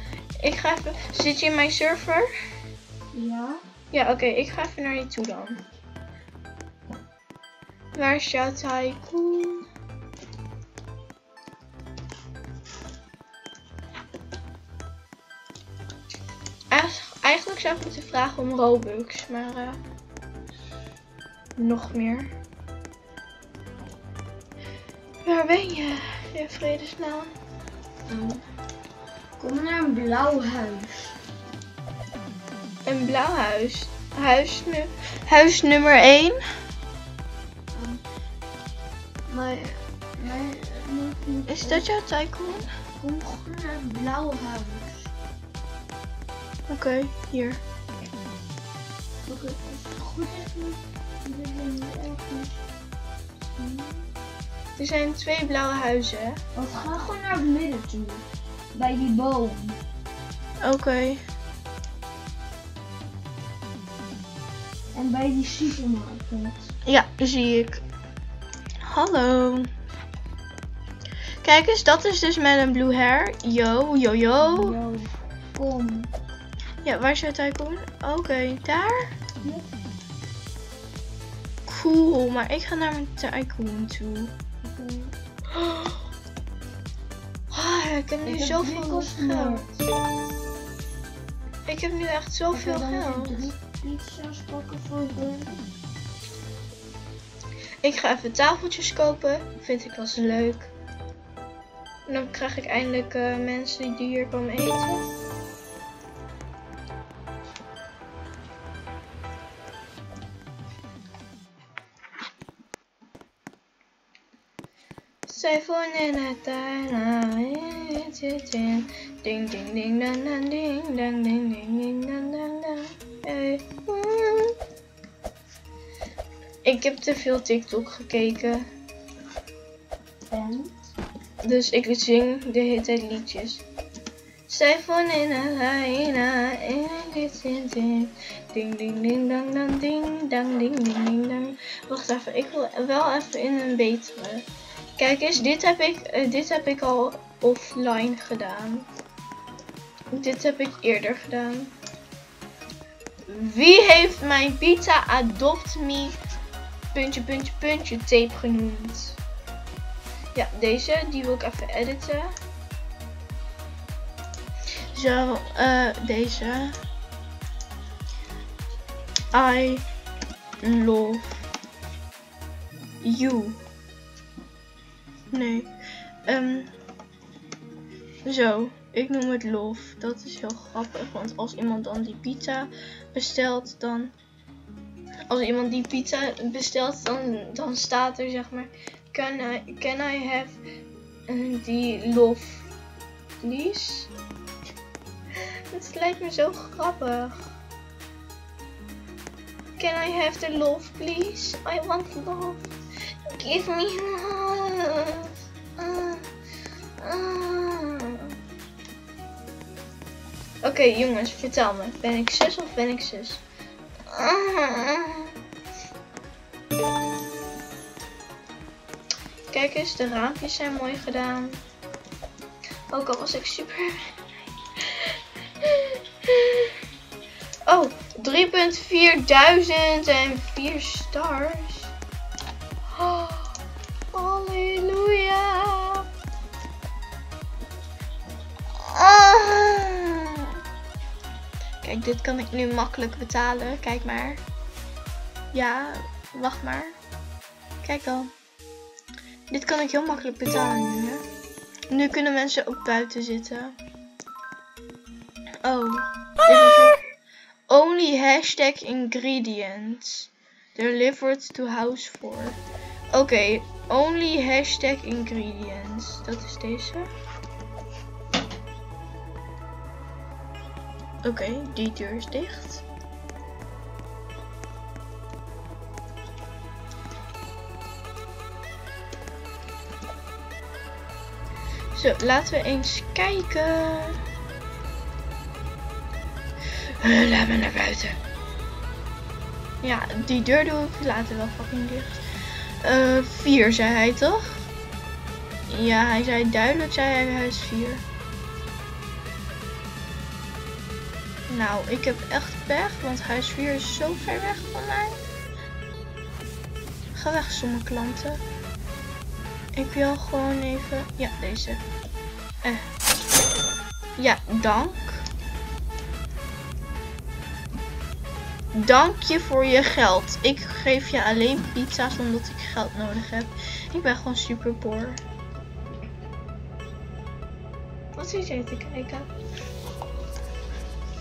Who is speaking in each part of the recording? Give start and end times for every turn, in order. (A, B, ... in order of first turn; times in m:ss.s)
0:00.4-0:02.3 A
0:03.1-0:03.6 B
0:03.9-0:05.6 A
0:07.9-0:09.6 A
0:16.7-0:19.8 A
0:21.6-0:22.3 A
0:25.2-0:27.3 A
0:28.1-0:28.4 B
0:29.4-0:31.2 B
0:32.8-0:36.4 A
0:37.7-0:38.0 B
0:39.3-0:41.9 B
0:41.5-0:42.6 A
0:43.0-0:45.1 B
0:46.7-0:47.6 A
0:49.3-0:52.6 B
0:53.5-0:54.1 B
0:54.8-0:56.4 A
0:56.5-0:59.8 B
1:00.6-1:01.2 A
1:04.9-1:06.7 B
1:06.8-1:07.8 A
1:08.8-1:09.7 A
1:11.4-1:14.8 A
1:14.4-1:16.1 B
1:16.8-1:19.1 A
1:19.4-1:19.7 B
1:21.7-1:24.3 A
1:24.6-1:25.1 B
1:25.5-1:26.0 A
1:27.5-1:29.6 A
1:28.2-1:29.9 B
1:31.6-1:33.5 A
1:32.5-1:35.6 B
1:37.8-1:40.7 A
1:42.1-1:45.0 A
1:55.3-2:04.5 A
2:06.6-2:08.7 A
2:10.3-2:10.8 B
2:11.4-2:13.6 A
2:14.5-2:24.5 A
2:25.0-2:28.9 A
2:30.1-2:31.7 A
2:33.3-2:36.2 A
2:36.9-2:39.2 A
2:40.3-2:42.3 A
2:44.9-2:46.8 A
2:49.3-2:49.8 A
2:50.6-2:51.4 A
2:53.0-2:53.6 A
2:55.3-2:55.7 A
2:56.2-2:56.7 A
2:58.2-3:04.1 A
3:05.3-3:10.6 A
3:11.3-3:12.7 A
3:13.4-3:14.1 A
3:15.7-3:17.5 A
3:19.8-3:22.6 A
3:23.3-3:26.2 A
3:27.0-3:28.3 A
3:30.6-3:33.4 A
3:34.1-3:35.3 A
3:39.5-3:41.6 A
3:42.9-3:44.0 A
3:44.8-3:46.7 A
3:47.7-3:51.9 A
3:52.9-3:53.6 A
3:54.1-3:56.0 A
3:58.8-4:00.5 A
4:01.8-4:04.4 A
4:05.5-4:07.0 A
4:07.8-4:08.3 A
4:09.5-4:11.2 A
4:11.9-4:13.8 A
4:15.6-4:17.0 A
4:17.7-4:22.6 A
4:23.1-4:27.1 A
4:31.2-4:32.8 A
4:41.9-4:44.2 A
4:47.0-4:48.2 A
4:49.8-4:52.2 A
4:52.8-4:54.7 A
4:55.7-4:58.0 A
5:01.5-5:05.2 A
5:07.1-5:08.4 A
5:09.7-5:11.8 A
5:14.2-5:15.2 A
5:18.7-5:25.2 A
5:28.2-5:29.3 A